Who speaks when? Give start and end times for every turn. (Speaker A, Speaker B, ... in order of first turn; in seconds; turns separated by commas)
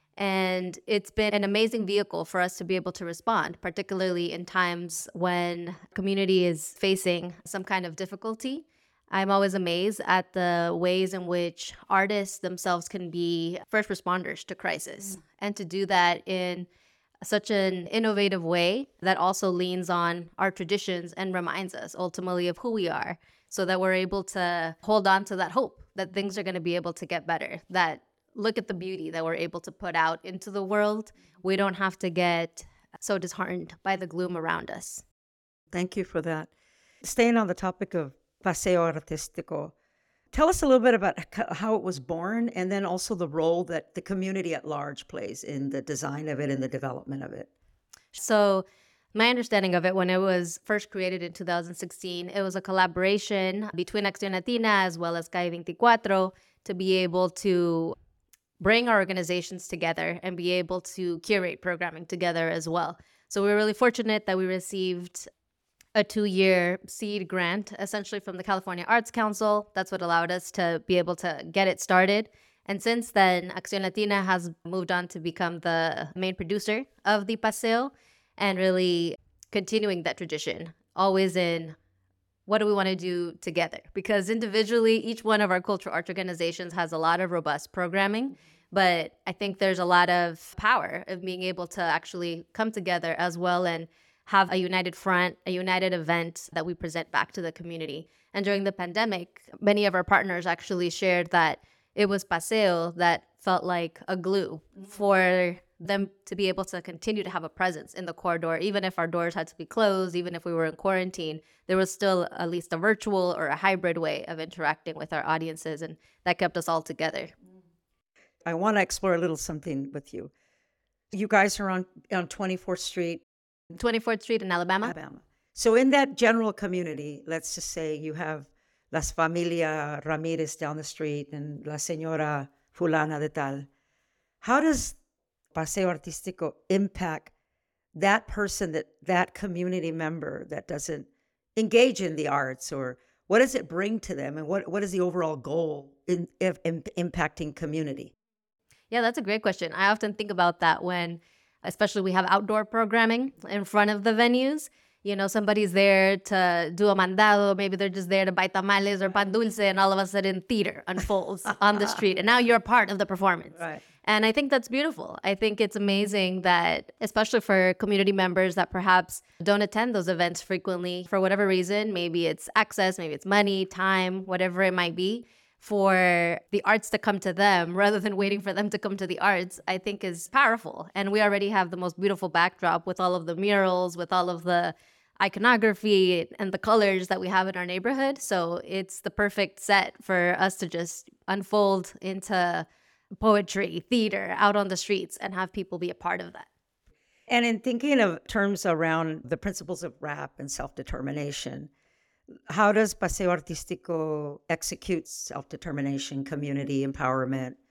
Speaker A: 0.2-16.7, Speaker A: 17.2-35.0, Speaker B: 35.7-36.5, Speaker B: 37.0-39.7, Speaker B: 40.3-47.5, Speaker A: 48.1-57.9, Speaker A: 58.6-65.3, Speaker A: 65.9-81.8, Speaker A: 82.5-117.3, Speaker B: 118.5-120.3, Speaker B: 121.1-123.2, Speaker A: 123.7-124.9, Speaker B: 124.8-133.7, Speaker B: 134.4-135.0, Speaker B: 135.5-137.3, Speaker B: 137.9-148.1, Speaker A: 148.9-192.7, Speaker A: 193.2-196.5, Speaker B: 197.3-201.7, Speaker B: 202.5-207.6